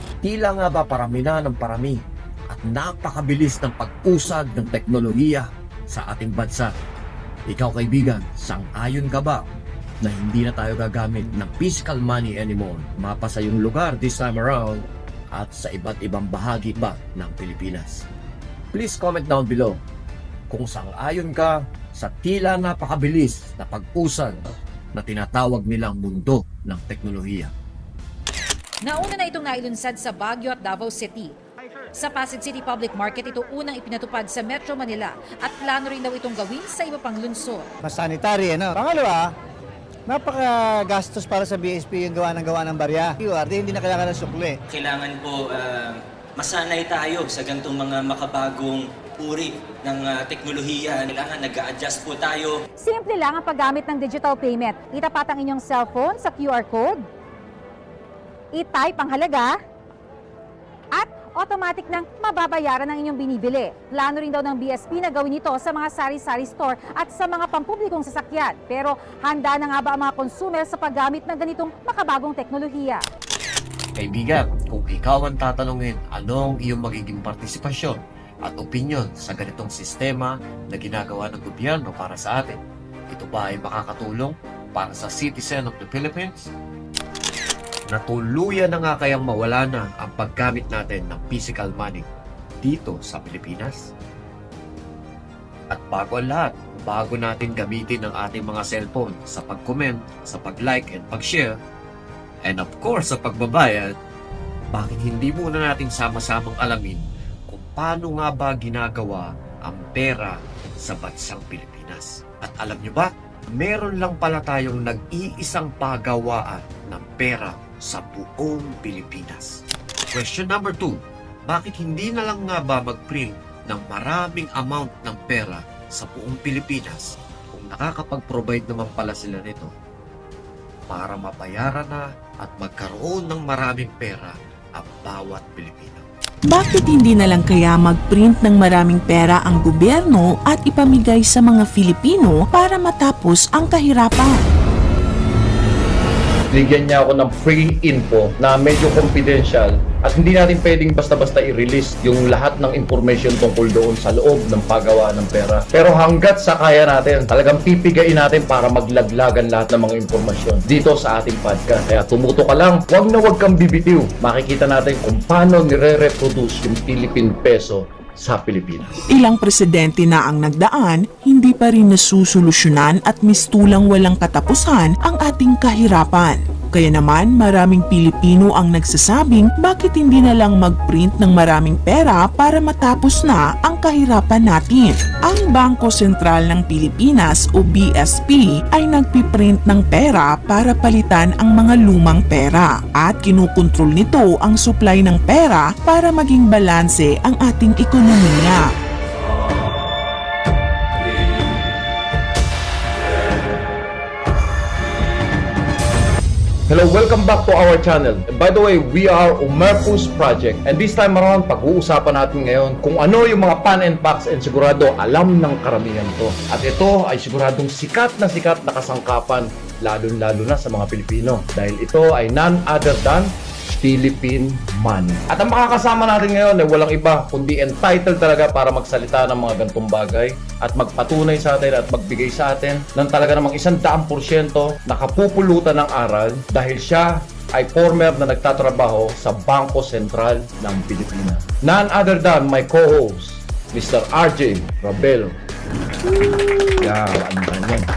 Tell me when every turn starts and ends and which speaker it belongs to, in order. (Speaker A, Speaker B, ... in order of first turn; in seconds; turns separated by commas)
Speaker A: 0.2-6.7, Speaker A: 7.5-9.4, Speaker A: 10.0-18.0, Speaker A: 18.7-19.8, Speaker A: 20.5-24.4, Speaker A: 24.9-27.5, Speaker B: 28.8-31.4, Speaker B: 32.0-37.7, Speaker C: 37.8-39.3, Speaker C: 40.1-44.6, Speaker D: 44.7-52.6, Speaker E: 52.8-57.0, Speaker E: 58.5-59.6, Speaker E: 61.0-73.0, Speaker A: 74.0-82.6, Speaker A: 83.1-86.5, Speaker A: 87.9-92.1, Speaker A: 92.6-93.8, Speaker A: 95.7-101.5, Speaker A: 102.4-103.9, Speaker A: 104.7-119.6, Speaker A: 120.1-129.7, Speaker A: 130.9-136.1, Speaker F: 136.5-144.4, Speaker G: 146.5-168.9, Speaker F: 169.1-198.7, Speaker G: 206.7-245.4, Speaker G: 246.2-247.9